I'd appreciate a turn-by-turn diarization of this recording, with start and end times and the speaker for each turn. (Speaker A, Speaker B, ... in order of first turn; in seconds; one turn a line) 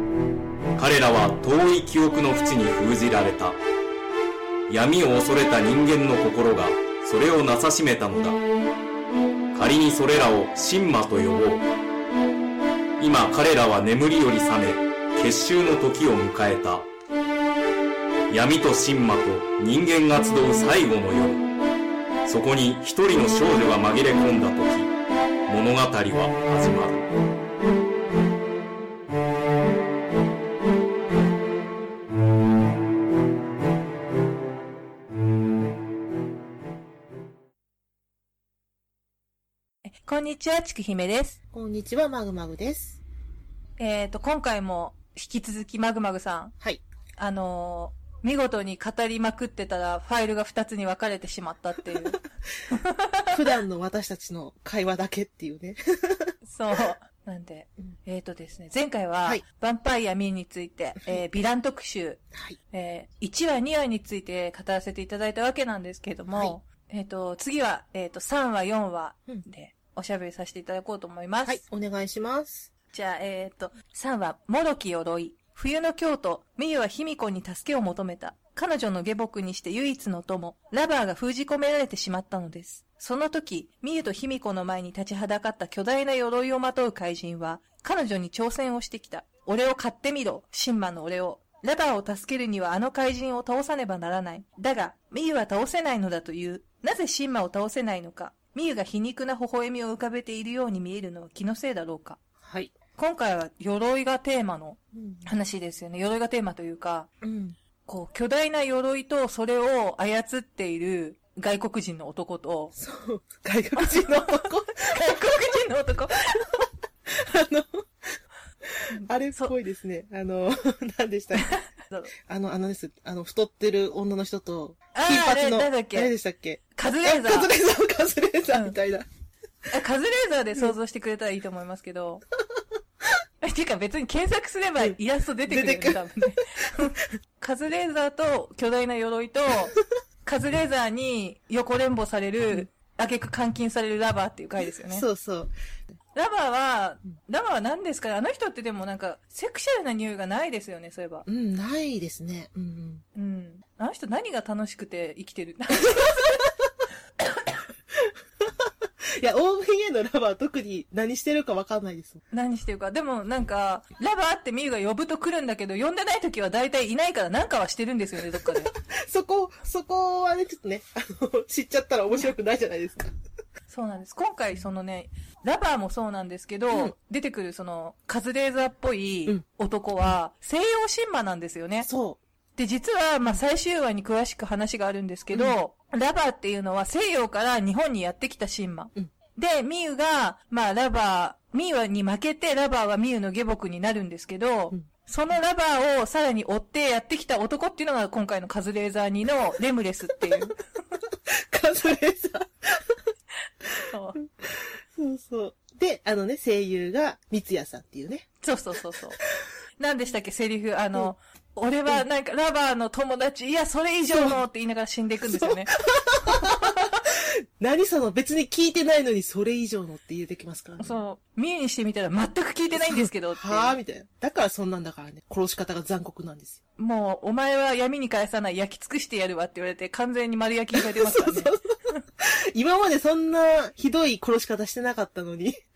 Speaker A: 0.8-3.6
Speaker A: 4.7-8.4
Speaker A: 9.5-11.7
Speaker A: 13.0-16.9
Speaker A: 18.3-21.4
Speaker A: 22.3-24.9
Speaker A: 25.5-27.1
Speaker B: 39.9-41.4
Speaker C: 41.5-43.0
Speaker B: 43.8-46.5
Speaker B: 47.2-53.3
Speaker C: 53.3-56.3
Speaker B: 56.4-71.6
Speaker C: 62.3-62.6
Speaker C: 71.5-72.7
Speaker B: 72.9-102.2
Speaker C: 102.4-102.7
Speaker B: 103.0-107.1
Speaker C: 104.9-105.3
Speaker C: 107.2-107.6
Speaker B: 107.9-112.8
Speaker C: 112.8-115.5
Speaker B: 113.8-116.7
Speaker C: 117.1-121.6
Speaker B: 118.9-119.5
Speaker B: 121.3-122.1
Speaker C: 122.2-129.1
Speaker B: 124.9-126.1
Speaker B: 126.8-127.5
Speaker B: 128.5-128.8
Speaker B: 129.7-132.2
Speaker B: 133.4-139.7
Speaker C: 134.8-136.4
Speaker B: 140.2-145.1
Speaker C: 144.9-145.5
Speaker B: 146.2-151.2
Speaker C: 151.3-153.0
Speaker B: 153.2-156.4
Speaker C: 155.9-156.7
Speaker C: 157.9-162.2
Speaker B: 162.3-168.7
Speaker C: 168.3-173.1
Speaker B: 173.7-181.9
Speaker C: 181.8-182.2
Speaker B: 182.6-200.6
Speaker C: 185.3-185.6
Speaker C: 200.2-203.0
Speaker C: 203.7-208.3
Speaker B: 203.9-204.2
Speaker B: 208.4-209.2
Speaker B: 209.8-216.8
Speaker C: 214.1-214.4
Speaker C: 215.3-221.0
Speaker B: 220.8-223.8
Speaker C: 222.8-226.6
Speaker B: 226.8-232.0
Speaker C: 230.8-235.6